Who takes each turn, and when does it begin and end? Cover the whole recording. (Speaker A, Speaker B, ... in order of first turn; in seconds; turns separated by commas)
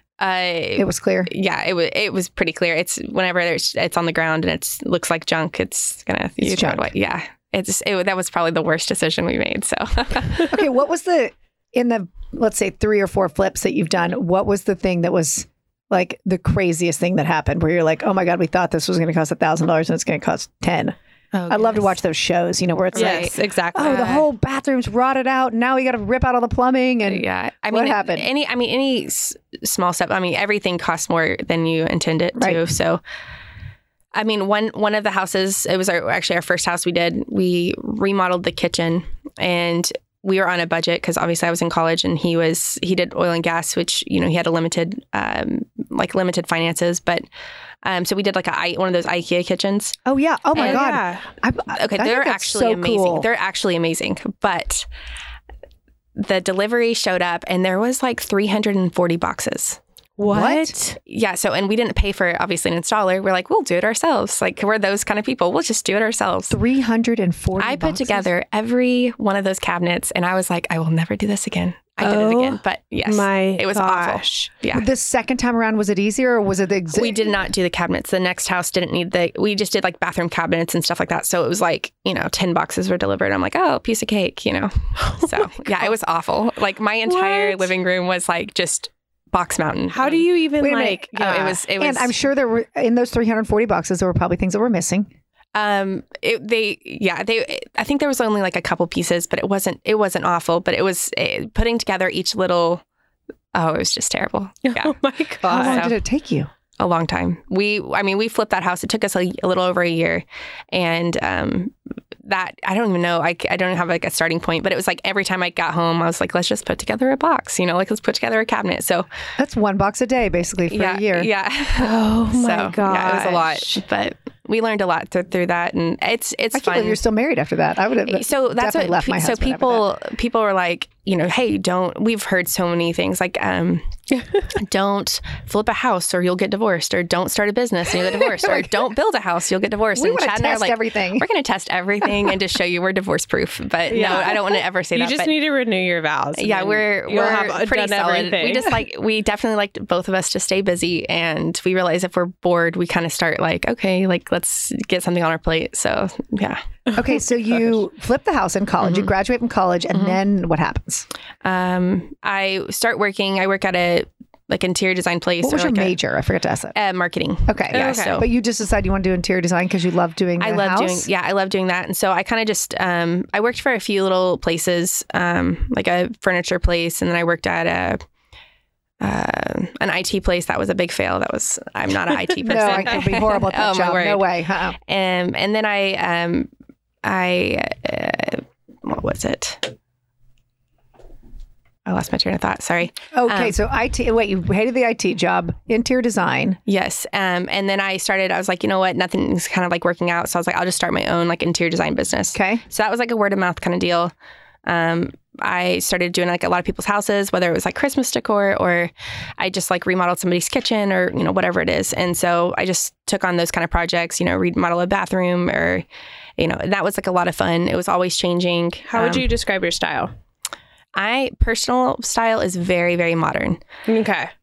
Speaker A: 0.2-10.6, Speaker B: 0.8-1.3, Speaker B: 6.4-6.9, Speaker B: 10.5-20.9, Speaker A: 21.3-21.9, Speaker B: 21.5-28.3, Speaker A: 22.9-24.2, Speaker C: 22.9-24.2, Speaker A: 27.0-33.0, Speaker A: 34.1-47.2, Speaker A: 47.8-50.0, Speaker B: 50.0-53.3, Speaker A: 50.5-50.9, Speaker C: 50.6-51.2, Speaker A: 51.7-54.9, Speaker A: 56.1-59.8, Speaker C: 60.2-61.0, Speaker B: 60.3-60.7, Speaker A: 61.0-66.6, Speaker B: 66.5-68.3, Speaker A: 67.6-74.9, Speaker C: 72.0-74.5, Speaker B: 74.7-77.3, Speaker A: 76.9-90.2, Speaker C: 85.0-85.9, Speaker C: 87.1-87.7, Speaker C: 89.9-91.6, Speaker B: 90.6-95.1, Speaker A: 91.2-92.1, Speaker A: 95.5-102.8, Speaker A: 103.5-105.0, Speaker C: 104.6-105.8, Speaker A: 105.5-106.0, Speaker B: 105.5-106.5, Speaker A: 106.8-111.7, Speaker A: 112.2-119.1, Speaker B: 119.4-121.3, Speaker A: 120.7-127.0, Speaker C: 121.8-123.8, Speaker B: 126.5-129.9, Speaker A: 128.1-133.8, Speaker C: 134.1-134.4, Speaker A: 134.5-145.3, Speaker B: 138.1-138.7, Speaker B: 139.9-141.3, Speaker C: 143.9-148.7, Speaker A: 146.4-156.6, Speaker B: 156.9-161.1, Speaker A: 158.8-159.1, Speaker A: 159.9-160.2, Speaker A: 161.4-165.9, Speaker B: 165.4-166.7, Speaker A: 166.7-168.3, Speaker B: 167.5-171.1, Speaker C: 167.7-168.2, Speaker A: 170.4-178.0, Speaker A: 179.0-184.3, Speaker B: 182.4-184.8, Speaker A: 184.9-186.5, Speaker A: 187.0-189.7, Speaker A: 191.9-193.6, Speaker B: 193.1-196.6, Speaker A: 196.7-204.1, Speaker B: 202.3-202.6, Speaker A: 204.7-215.8, Speaker A: 216.4-219.3, Speaker C: 218.9-220.1, Speaker A: 220.9-223.6, Speaker C: 223.9-224.3